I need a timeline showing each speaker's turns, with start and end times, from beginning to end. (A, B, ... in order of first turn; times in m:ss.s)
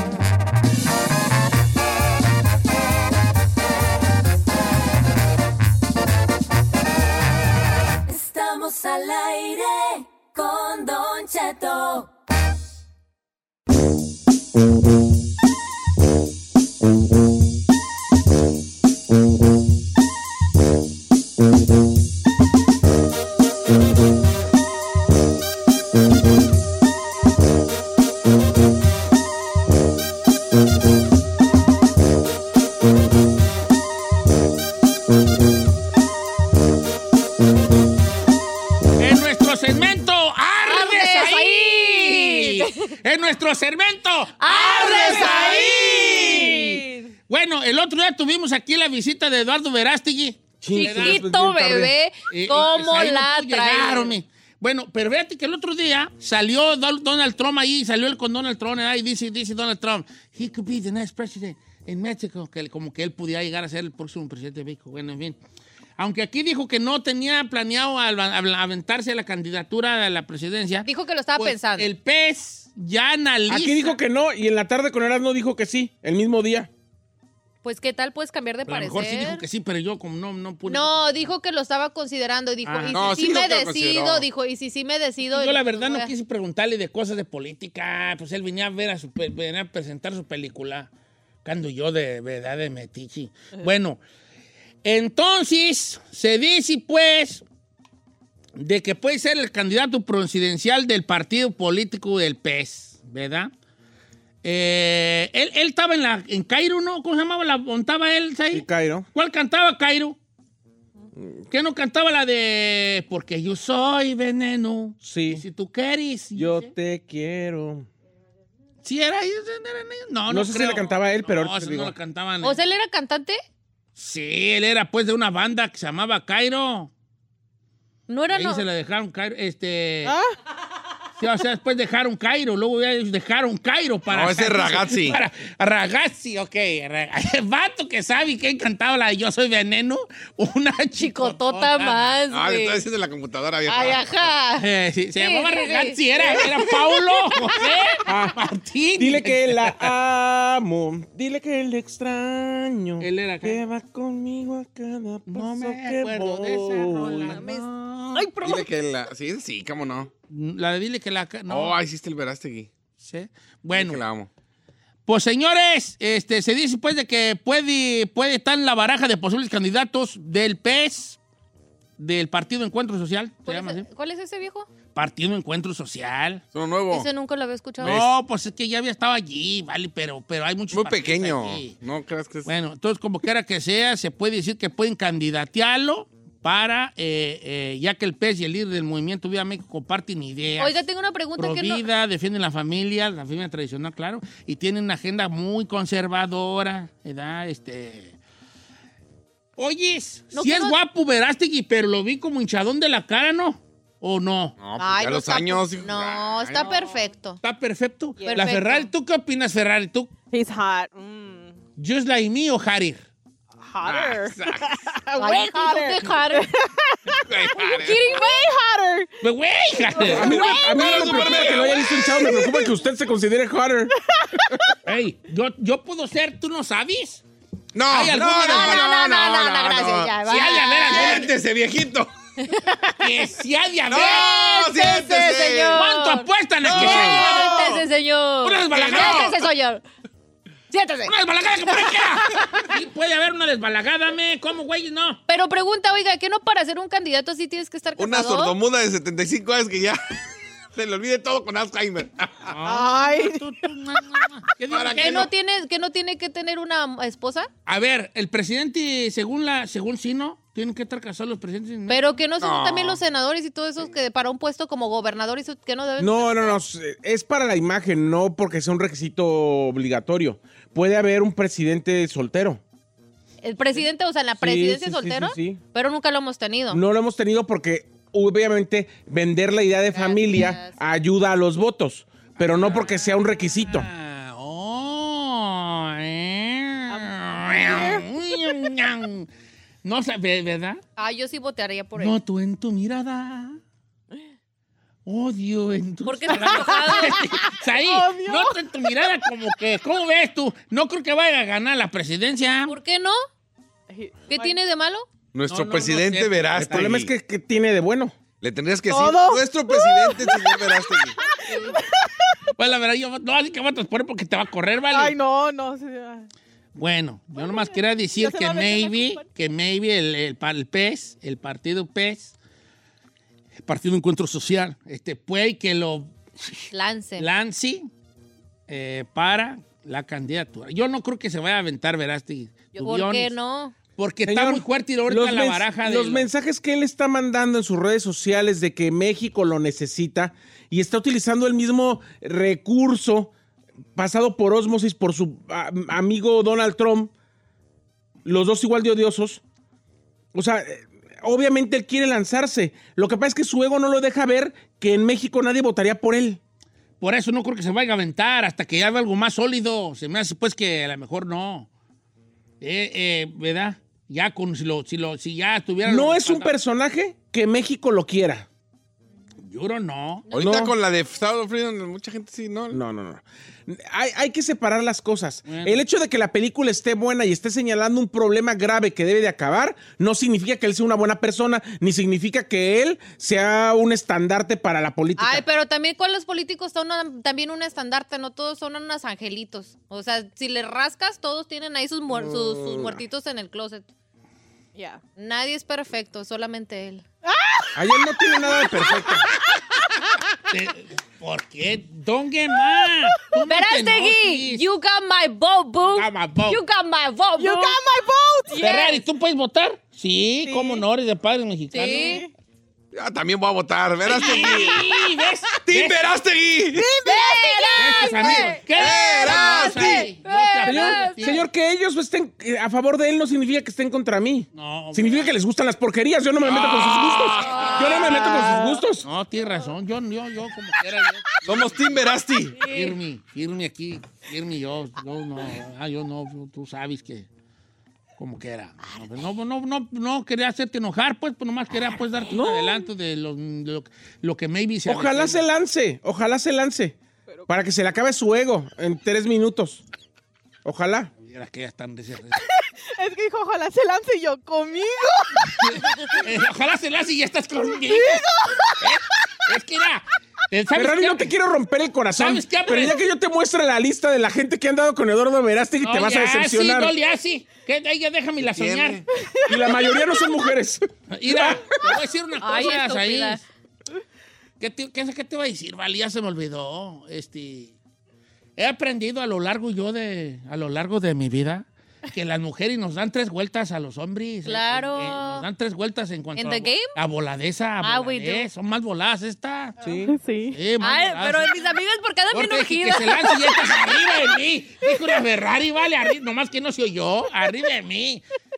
0:08.1-0:12.1 A
0:39.0-0:46.6 B
0:40.6-0:42.9 C
0:44.4-0:47.1 C
0:46.1-0:46.7 D
0:47.3-0:51.2 B
0:50.6-0:51.9 D
0:50.7-0:54.1 C
0:52.3-1:05.4 B
1:06.0-1:14.0 B
1:10.8-1:11.9 C
1:13.5-1:16.7 D
1:17.6-1:19.4 C
1:18.7-1:21.0 B
1:20.6-1:26.1 C
1:22.6-1:23.2 B
1:22.9-1:24.3 E
1:25.3-1:30.9 B
1:31.4-1:34.0 B
1:34.8-1:37.4 B
1:38.6-1:43.5 B
1:44.4-1:50.2 B
1:48.5-1:49.0 D
1:51.2-1:51.4 D
1:51.5-1:56.7 B
1:55.0-1:55.4 D
1:56.3-1:57.9 D
1:58.8-2:02.6 B
2:00.3-2:01.9 D
2:02.4-2:03.4 C
2:04.0-2:06.9 B
2:08.1-2:08.6 C
2:08.3-2:10.1 B
2:10.0-2:10.3 F
2:11.2-2:22.2 B
2:14.1-2:15.2 E
2:21.0-2:22.8 C
2:22.3-2:24.1 E
2:23.7-2:27.4 C
2:24.6-2:29.9 B
2:28.1-2:28.4 D
2:29.0-2:37.4 D
2:33.0-2:33.6 B
2:35.3-2:38.4 B
2:38.4-2:40.1 E
2:40.3-2:41.8 B
2:41.5-2:42.7 E
2:43.0-2:44.0 B
2:43.7-2:44.3 E
2:45.1-2:51.2 B
2:52.0-2:53.8 B
2:53.4-2:54.7 C
2:54.9-2:56.4 B
2:56.5-2:57.1 E
2:56.9-2:58.0 C
2:57.8-2:58.1 E
2:57.8-3:01.8 B
3:00.7-3:02.5 E
3:02.4-3:10.8 B
3:10.6-3:11.9 C
3:11.4-3:18.2 B
3:19.6-3:24.6 B
3:20.3-3:20.8 C
3:24.6-3:26.8 E
3:24.8-3:27.4 C
3:26.6-3:27.0 F
3:27.4-3:30.1 B
3:28.2-3:28.7 F
3:28.2-3:28.8 C
3:30.3-3:31.6 F
3:31.8-3:33.0 B
3:33.6-3:39.1 F
3:33.8-3:34.7 E
3:35.2-3:36.5 C
3:37.2-3:38.2 E
3:38.0-3:38.4 C
3:39.2-3:42.0 B
3:40.0-3:40.7 F
3:40.1-3:44.4 D
3:40.1-3:42.1 E
3:42.3-3:42.7 F
3:44.1-3:44.7 F
3:44.8-3:47.2 B
3:47.7-3:50.1 E
3:47.9-3:48.9 B
3:48.4-3:51.3 C
3:50.2-3:51.3 B
3:50.8-3:52.1 E
3:52.4-3:52.9 C
3:53.0-3:54.4 B
3:53.9-3:55.8 E
3:54.4-3:59.8 C
3:55.7-3:57.8 B
3:56.6-3:57.8 E
3:58.4-3:59.3 B
3:58.7-3:59.4 E
4:00.7-4:01.1 C
4:01.0-4:05.2 B
4:01.7-4:01.9 C
4:05.3-4:08.6 C
4:08.0-4:10.0 E
4:10.7-4:12.5 E
4:12.5-4:15.3 B
4:12.6-4:13.4 F
4:14.7-4:15.3 E
4:15.0-4:17.5 C
4:17.6-4:22.0 B
4:21.9-4:26.6 C
4:22.4-4:23.0 E
4:26.0-4:32.6 D
4:33.4-4:36.8 C
4:34.4-4:35.6 D
4:36.7-4:43.9 D
4:39.9-4:40.8 C
4:42.4-4:49.3 B
4:47.0-4:48.0 F
4:49.8-4:50.8 B
4:51.0-4:52.1 C
4:52.0-4:53.6 B
4:55.0-5:02.7 B
4:56.0-4:57.3 C
4:56.3-4:58.6 F
5:02.7-5:03.2 C
5:03.9-5:04.6 F
5:04.3-5:05.1 C
5:05.3-5:07.1 E
5:05.5-5:06.8 B
5:06.6-5:08.2 D
5:08.4-5:11.2 E
5:08.9-5:12.3 F
5:11.5-5:11.8 C
5:12.6-5:15.2 B
5:14.9-5:16.3 F
5:16.8-5:22.3 B
5:17.4-5:19.2 F
5:23.6-5:27.9 B
5:26.7-5:27.2 C
5:28.7-5:33.3 B
5:32.8-5:33.7 C
5:34.0-5:36.3 B
5:34.3-5:43.3 D
5:43.9-5:47.1 D
5:48.2-5:49.4 D
5:50.3-5:56.4 D
5:57.0-6:01.7 B
6:02.6-6:06.5 B
6:05.8-6:08.5 D
6:09.4-6:10.3 B
6:10.3-6:10.6 C
6:10.3-6:12.8 E
6:10.4-6:10.7 D
6:12.7-6:25.4 D
6:15.4-6:15.8 B
6:25.2-6:33.9 C
6:34.7-6:35.0 F
6:35.2-6:37.0 C
6:37.2-6:39.8 F
6:37.8-6:39.3 D
6:40.5-6:44.6 B
6:43.4-6:47.8 C
6:45.9-6:46.6 B
6:47.4-6:48.8 F
6:48.5-6:48.9 C
6:48.6-6:52.2 B
6:50.4-6:50.8 F
6:51.7-6:52.2 C
6:51.8-6:52.3 F
6:52.9-6:54.9 E
6:54.0-6:56.0 B
6:55.6-6:56.9 E
6:56.7-6:58.1 F
6:57.0-7:01.2 C
6:57.7-7:01.4 B
6:58.2-7:00.1 E
7:00.6-7:09.0 D
7:04.5-7:05.3 B
7:06.4-7:07.6 E
7:07.4-7:08.4 B
7:07.4-7:08.4 C
7:09.0-7:11.9 B
7:11.4-7:12.6 E
7:12.6-7:17.3 B
7:18.2-7:25.4 B
7:24.9-7:27.0 D
7:27.5-7:29.8 D
7:30.6-7:31.1 D
7:31.2-7:32.4 B
7:33.0-7:36.2 F
7:35.6-7:38.2 B
7:37.9-7:38.8 F
7:38.8-7:41.3 B
7:40.7-7:46.9 D
7:42.2-7:43.0 B
7:45.8-7:49.0 B
7:48.4-7:49.0 E
7:49.1-7:50.4 F
7:49.5-7:51.6 D
7:51.1-7:53.4 B
7:52.4-7:53.4 C
7:54.6-7:57.7 B
7:58.6-8:09.8 B
8:04.4-8:05.4 C
8:06.4-8:06.9 C
8:07.8-8:08.5 C
8:09.8-8:10.2 D
8:09.8-8:10.6 F
8:10.5-8:11.5 B
8:10.8-8:14.1 C
8:12.3-8:18.2 B